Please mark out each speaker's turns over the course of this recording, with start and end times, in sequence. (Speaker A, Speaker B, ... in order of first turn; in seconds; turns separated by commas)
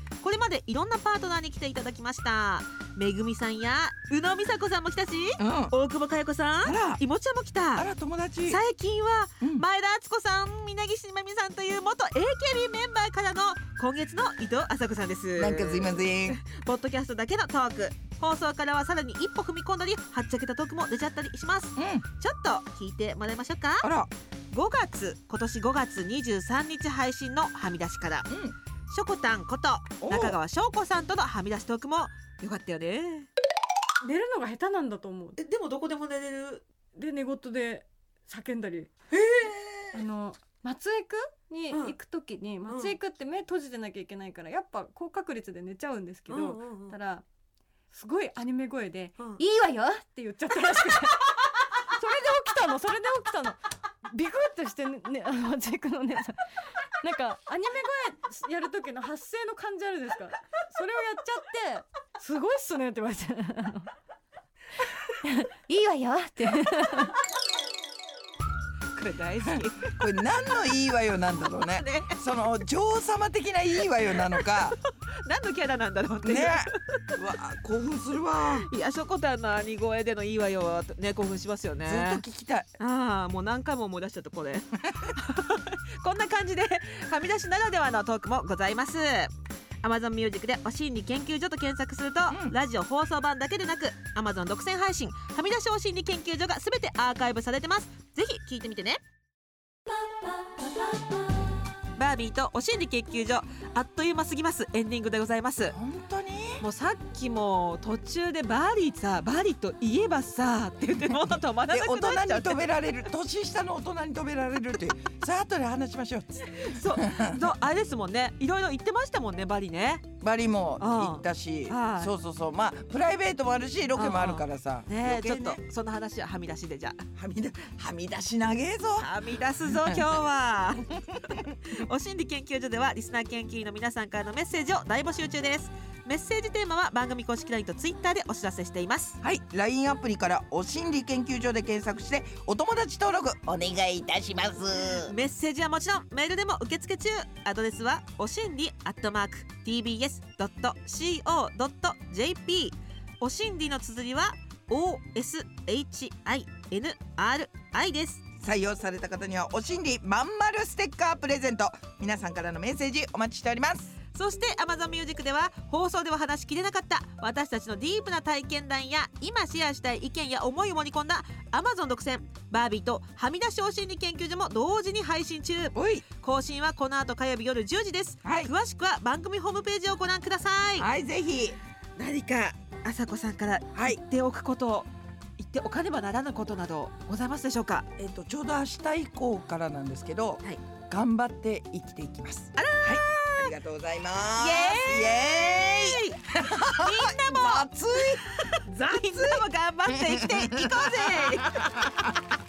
Speaker A: 0.2-7.9, Speaker B: 5.4-5.7, Speaker B: 6.6-7.0, Speaker B: 7.7-8.6, Speaker A: 8.5-23.9, Speaker B: 9.4-9.6, Speaker B: 15.3-16.4, Speaker B: 21.8-22.0, Speaker B: 23.8-24.1, Speaker A: 24.5-28.3, Speaker B: 28.3-28.6, Speaker A: 28.9-33.3, Speaker B: 30.0-30.4, Speaker C: 34.0-35.4, Speaker A: 35.4-36.6, Speaker C: 37.0-38.9, Speaker A: 39.1-39.8, Speaker C: 39.9-47.2, Speaker A: 42.6-43.0, Speaker A: 46.3-47.0, Speaker C: 47.9-51.2, Speaker C: 51.9-56.4, Speaker C: 57.0-63.9, Speaker C: 65.2-67.2, Speaker A: 68.9-70.0, Speaker B: 69.4-74.8, Speaker A: 71.7-72.2, Speaker A: 74.1-77.2, Speaker B: 76.2-78.7, Speaker A: 78.6-82.2, Speaker B: 81.8-82.7, Speaker A: 82.8-99.0, Speaker B: 92.3-92.5, Speaker A: 102.0-105.7, Speaker B: 105.7-106.6, Speaker A: 106.6-112.6, Speaker B: 111.7-117.5, Speaker A: 116.5-120.1, Speaker B: 120.2-125.6, Speaker A: 120.8-122.1, Speaker A: 124.0-127.0, Speaker B: 127.2-129.1, Speaker A: 129.0-130.9, Speaker B: 129.6-130.1, Speaker B: 131.1-131.5, Speaker A: 131.6-139.2, Speaker B: 139.2-145.1, Speaker A: 144.9-158.2, Speaker B: 158.4-163.9, Speaker A: 164.1-180.9, Speaker B: 175.7-176.0, Speaker B: 178.2-178.5, Speaker B: 180.8-181.6, Speaker A: 182.0-187.9, Speaker B: 188.0-202.2, Speaker A: 192.6-193.5, Speaker A: 194.4-201.9